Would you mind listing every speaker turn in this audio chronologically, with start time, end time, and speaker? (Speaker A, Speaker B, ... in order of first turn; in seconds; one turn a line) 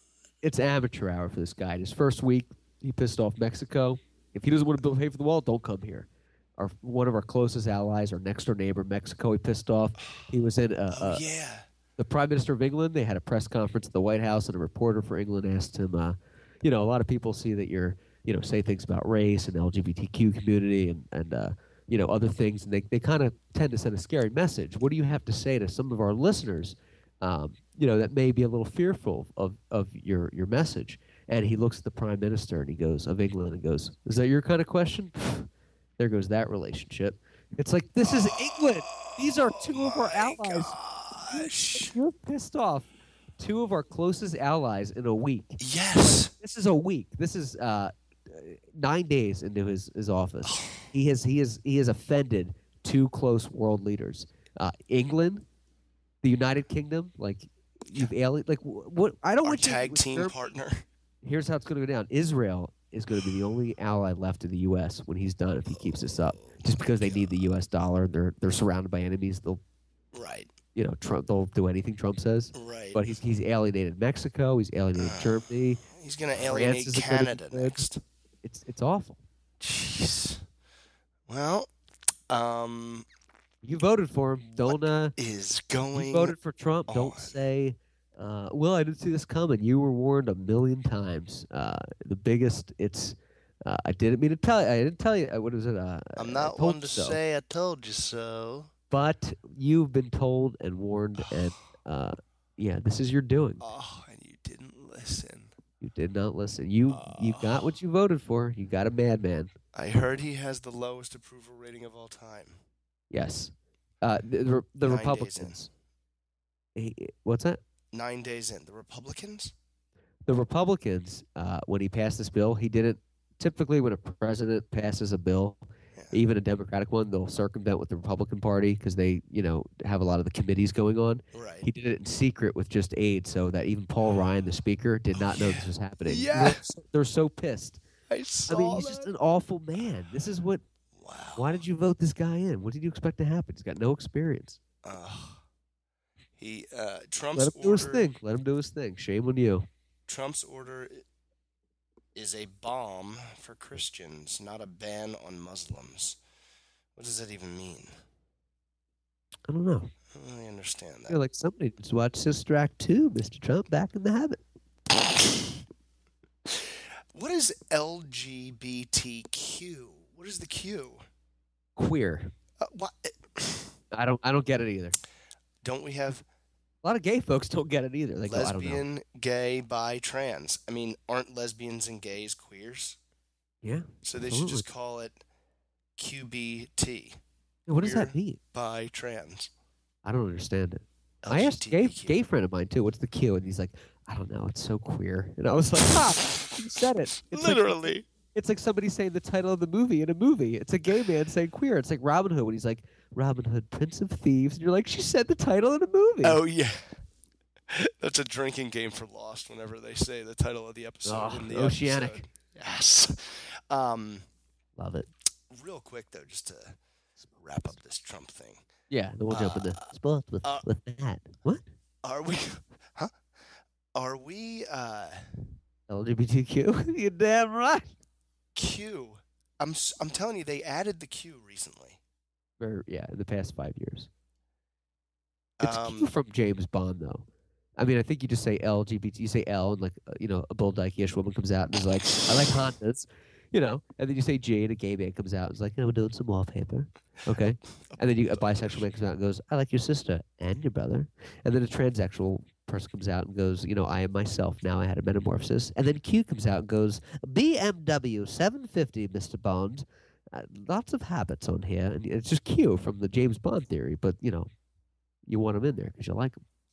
Speaker A: 0.4-11.2
Speaker B: 10.9-11.7
Speaker A: 12.0-40.8
Speaker B: 38.0-42.0
Speaker A: 41.3-42.9
Speaker A: 43.4-55.4
Speaker B: 45.6-46.3
Speaker B: 50.4-50.9
Speaker A: 56.2-60.4
Speaker B: 59.4-60.8
Speaker A: 61.2-69.6
Speaker B: 65.7-67.5
Speaker B: 70.1-70.5
Speaker A: 70.7-75.8
Speaker B: 72.5-73.2
Speaker B: 75.0-78.0
Speaker A: 76.5-77.8
Speaker A: 78.4-79.2
Speaker B: 79.6-80.4
Speaker B: 81.3-81.7
Speaker B: 82.3-83.0
Speaker A: 83.6-85.1
Speaker B: 84.6-86.3
Speaker A: 85.9-97.2
Speaker B: 86.9-87.3
Speaker B: 96.2-98.7
Speaker A: 98.9-103.6
Speaker B: 101.2-101.4
Speaker B: 103.6-105.5
Speaker A: 105.8-109.5
Speaker B: 106.9-107.7
Speaker B: 109.7-112.6
Speaker A: 113.1-115.7
Speaker B: 114.8-115.7
Speaker A: 116.7-117.6
Speaker B: 117.9-119.5
Speaker A: 120.2-137.8
Speaker B: 131.3-131.7
Speaker B: 134.0-134.5
Speaker B: 135.1-136.7
Speaker B: 138.1-139.1
Speaker A: 138.5-140.6
Speaker B: 140.9-141.6
Speaker A: 141.3-144.6
Speaker B: 144.8-145.4
Speaker B: 146.4-148.1
Speaker A: 147.3-149.7
Speaker B: 150.1-151.0
Speaker B: 152.1-156.2
Speaker B: 156.9-157.9
Speaker A: 159.5-159.9
Speaker B: 160.1-161.2
Speaker A: 161.1-164.4
Speaker B: 166.5-171.0
Speaker A: 171.8-172.3
Speaker B: 172.6-173.8
Speaker A: 173.9-174.9
Speaker B: 175.6-176.2
Speaker A: 176.8-178.8
Speaker B: 178.3-183.0
Speaker A: 183.6-184.7
Speaker B: 184.0-185.2
Speaker B: 186.0-187.2
Speaker A: 187.7-188.4
Speaker B: 187.8-189.5
Speaker A: 190.0-206.4
Speaker B: 191.2-192.2
Speaker B: 197.2-198.1
Speaker B: 206.2-207.0
Speaker B: 207.7-214.2
Speaker A: 211.1-212.2
Speaker A: 214.8-215.1
Speaker B: 215.5-216.8
Speaker B: 217.3-218.6
Speaker A: 218.9-221.7
Speaker B: 219.3-219.9
Speaker B: 222.0-223.1
Speaker B: 223.9-225.5
Speaker A: 225.9-227.9
Speaker B: 228.5-232.0
Speaker A: 232.6-234.1
Speaker B: 235.6-236.1
Speaker A: 235.6-237.2
Speaker A: 237.8-264.5
Speaker B: 247.8-248.9
Speaker A: 265.2-266.4